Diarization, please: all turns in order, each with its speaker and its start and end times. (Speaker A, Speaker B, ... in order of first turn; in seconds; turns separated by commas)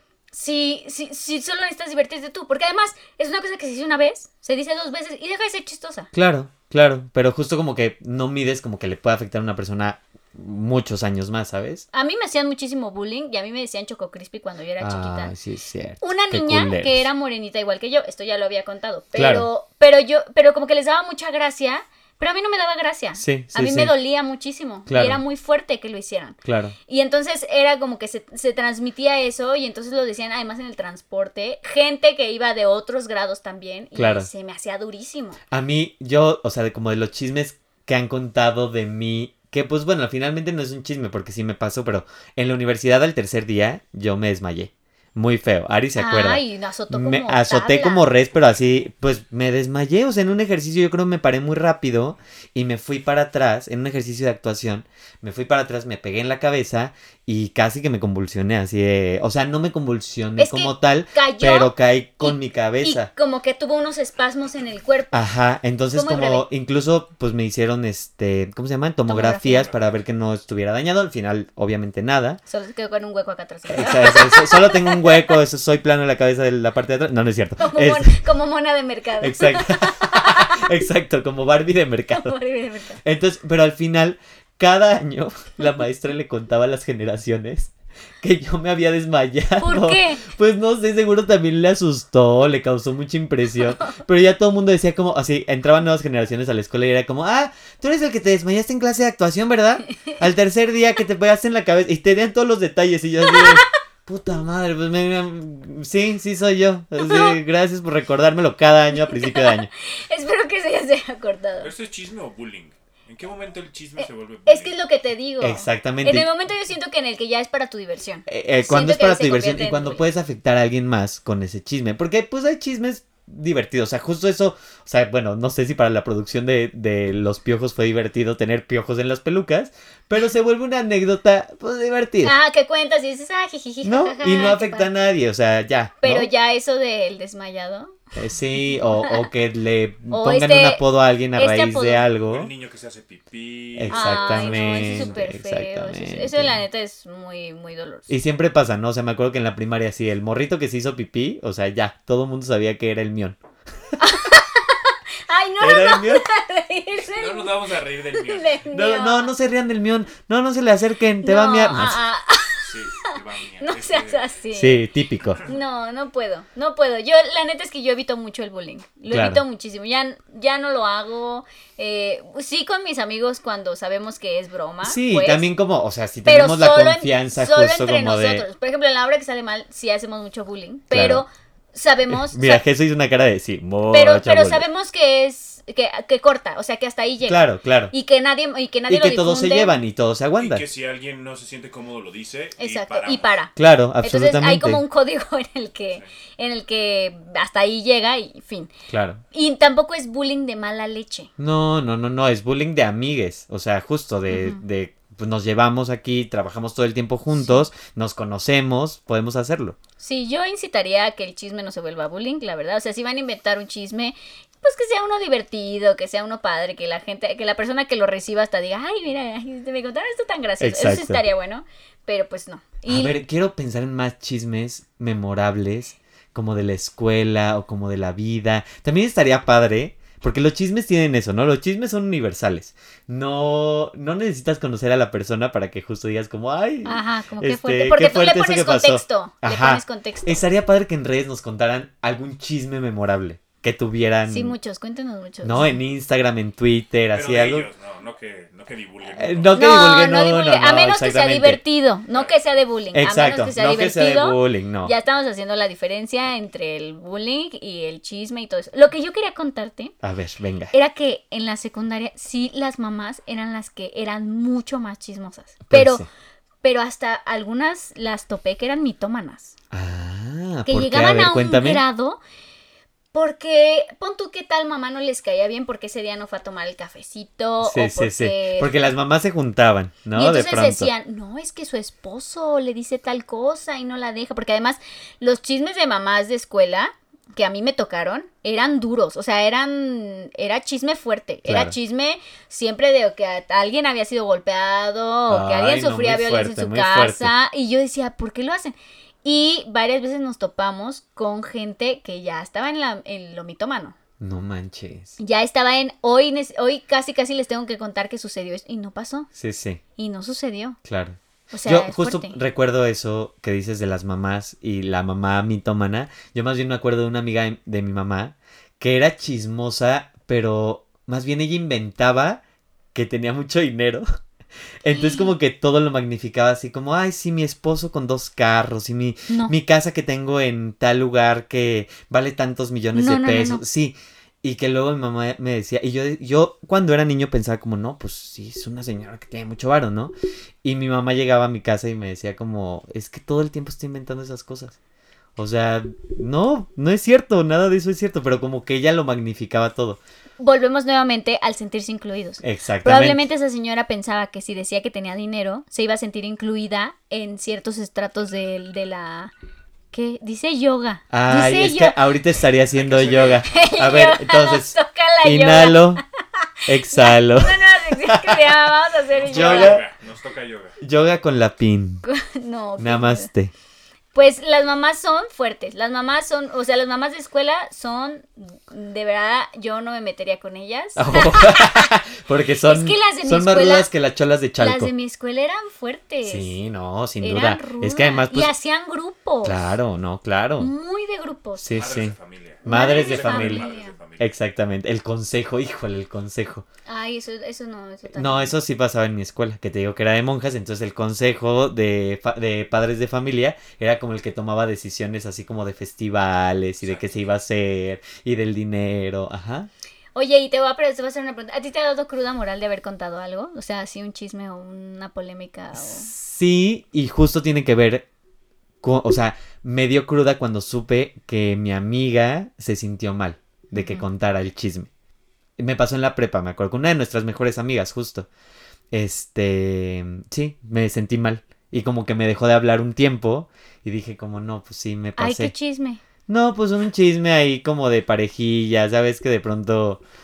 Speaker A: 0.3-6.1, Speaker B: 6.1-11.9, Speaker A: 11.9-15.3, Speaker B: 14.8-17.1, Speaker A: 16.0-35.4, Speaker B: 19.1-19.5, Speaker B: 23.2-23.9, Speaker B: 24.9-25.2, Speaker B: 26.4-26.8, Speaker B: 34.0-34.3, Speaker B: 35.5-63.1, Speaker A: 46.0-48.1, Speaker A: 60.4-65.2, Speaker B: 65.1-72.4, Speaker A: 65.9-66.5, Speaker A: 69.1-69.7, Speaker A: 72.5-75.4, Speaker B: 73.7-78.2, Speaker A: 77.6-80.6, Speaker B: 79.2-82.3, Speaker A: 82.1-83.0, Speaker B: 83.0-109.7, Speaker A: 89.6-90.2, Speaker A: 99.9-100.2, Speaker A: 103.2-103.7, Speaker A: 107.0-107.4, Speaker A: 108.9-111.7, Speaker C: 111.6-114.8, Speaker A: 114.0-120.1, Speaker B: 115.4-116.3, Speaker B: 118.3-132.4, Speaker A: 132.2-134.9, Speaker B: 133.8-136.3, Speaker A: 136.0-138.0, Speaker B: 138.2-142.5, Speaker A: 140.1-140.8, Speaker A: 141.4-142.1, Speaker C: 142.2-145.1, Speaker B: 143.8-146.6, Speaker A: 143.9-148.1, Speaker B: 148.1-153.4, Speaker A: 154.0-159.3, Speaker B: 155.6-156.2, Speaker C: 157.2-158.6, Speaker B: 158.7-162.0, Speaker A: 161.2-164.9, Speaker C: 162.6-164.3, Speaker B: 164.5-165.4, Speaker A: 165.4-175.4, Speaker B: 169.1-169.4, Speaker B: 174.8-178.5, Speaker A: 176.2-182.6, Speaker B: 180.9-181.2, Speaker B: 182.1-184.7, Speaker A: 183.9-189.8, Speaker B: 187.2-187.9, Speaker B: 188.9-190.7, Speaker C: 190.4-193.4, Speaker A: 192.6-198.7, Speaker B: 193.6-194.8, Speaker B: 198.9-199.2, Speaker A: 199.3-201.3, Speaker B: 201.4-209.8, Speaker A: 204.3-204.6, Speaker A: 207.4-207.6, Speaker A: 210.0-223.2, Speaker B: 220.6-221.2, Speaker B: 222.9-244.6, Speaker A: 236.8-240.4, Speaker A: 244.3-245.8, Speaker B: 245.4-247.7, Speaker C: 247.1-249.6, Speaker B: 249.2-251.6, Speaker A: 249.5-259.9, Speaker B: 252.9-254.9, Speaker B: 260.0-260.7, Speaker A: 260.7-266.1, Speaker B: 265.7-266.1, Speaker A: 266.6-269.6, Speaker B: 269.7-271.8, Speaker A: 270.7-272.2, Speaker A: 273.1-278.7, Speaker B: 277.6-280.9, Speaker A: 280.1-303.9, Speaker B: 291.5-291.8, Speaker B: 295.3-297.3, Speaker B: 304.2-305.2, Speaker A: 305.2-309.3, Speaker B: 309.4-309.8, Speaker A: 310.0-310.8, Speaker B: 310.9-322.4, Speaker A: 311.5-312.4, Speaker B: 322.9-324.1, Speaker B: 324.8-344.8, Speaker A: 324.9-325.3, Speaker A: 332.9-333.6, Speaker B: 345.4-350.0, Speaker A: 350.4-359.3, Speaker B: 352.4-353.2, Speaker A: 359.9-362.0, Speaker B: 361.1-366.0, Speaker C: 362.7-363.7, Speaker A: 363.4-366.0, Speaker B: 366.7-368.6, Speaker A: 366.8-369.8, Speaker C: 369.1-370.8, Speaker B: 369.3-369.8, Speaker B: 370.8-372.0, Speaker A: 372.1-373.3, Speaker B: 372.8-373.5, Speaker A: 374.1-381.9, Speaker B: 381.0-384.9, Speaker A: 382.6-383.9, Speaker A: 384.6-386.6, Speaker B: 386.2-388.5, Speaker A: 387.2-389.6, Speaker B: 389.4-390.7, Speaker A: 390.6-391.9, Speaker B: 391.6-393.7, Speaker C: 391.7-394.3, Speaker A: 392.6-393.9, Speaker B: 394.2-396.6, Speaker A: 396.9-398.5, Speaker B: 398.1-409.7, Speaker C: 406.8-407.1, Speaker A: 410.1-416.1, Speaker B: 415.8-418.1, Speaker B: 418.8-424.9, Speaker A: 423.7-424.1, Speaker B: 425.6-428.3, Speaker B: 428.9-435.5, Speaker A: 435.2-436.0, Speaker B: 436.3-440.0